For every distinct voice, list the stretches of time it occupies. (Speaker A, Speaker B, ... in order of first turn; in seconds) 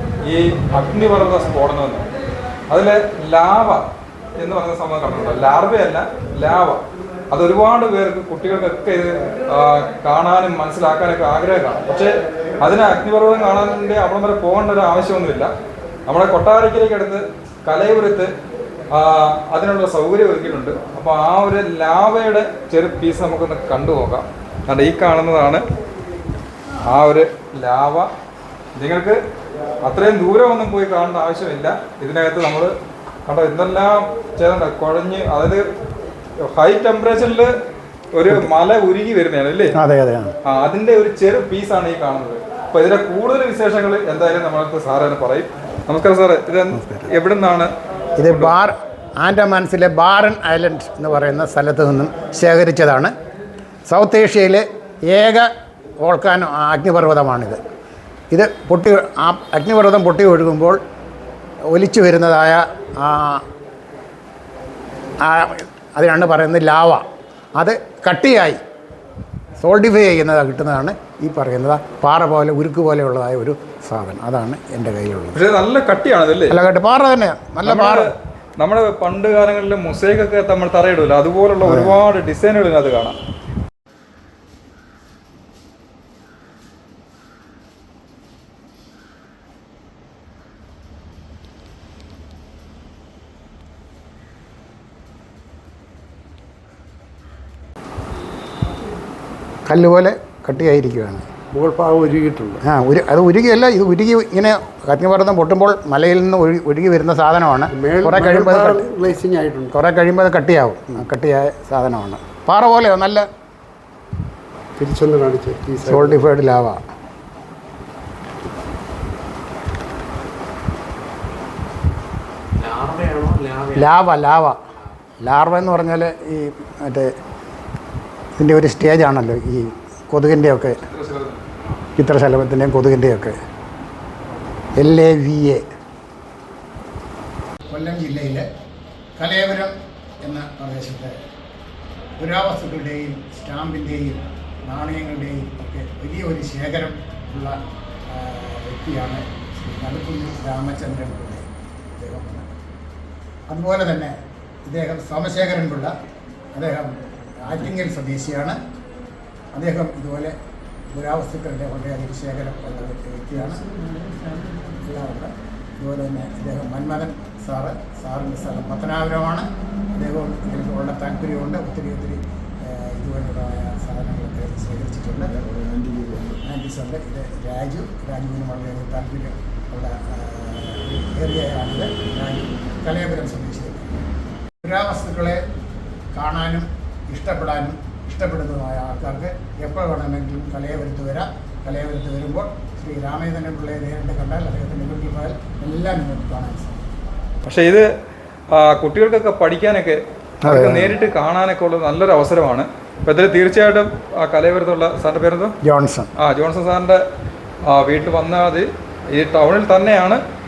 Speaker A: 0.2-2.0, 2.7-15.5, 16.1-18.3, 18.9-25.6, 26.9-28.1, 28.8-29.2, 29.8-32.7, 33.2-35.6, 36.5-37.5, 38.1-39.7, 40.4-47.7, 48.3-48.6, 75.3-76.6, 77.6-83.2, 130.9-131.4, 197.4-197.9, 198.5-205.5, 206.2-207.0, 207.7-210.2
Speaker B: 39.8-40.3, 46.7-47.1, 48.2-53.1, 53.9-55.5, 56.0-57.6, 58.3-60.8, 61.7-63.4, 65.2-67.0, 67.6-68.6, 69.6-75.4, 76.5-78.1, 81.6-82.0, 99.7-101.2, 102.6-109.0, 109.7-113.2, 115.8-116.8, 123.7-124.6, 125.2-127.1, 128.4-130.8, 132.0-133.3, 134.8-135.6, 137.7-138.4, 139.2-141.1, 142.2-147.6, 148.1-151.4, 152.0-152.5, 153.5-154.1, 154.7-155.9, 156.6-158.6, 159.5-160.3, 160.9-163.7, 164.7-175.4, 176.4-183.9, 184.6-185.4, 186.1-196.8, 200.4-201.0, 205.6-206.1
Speaker C: 101.5-102.6, 107.7-109.7, 114.8-116.2, 122.6-123.9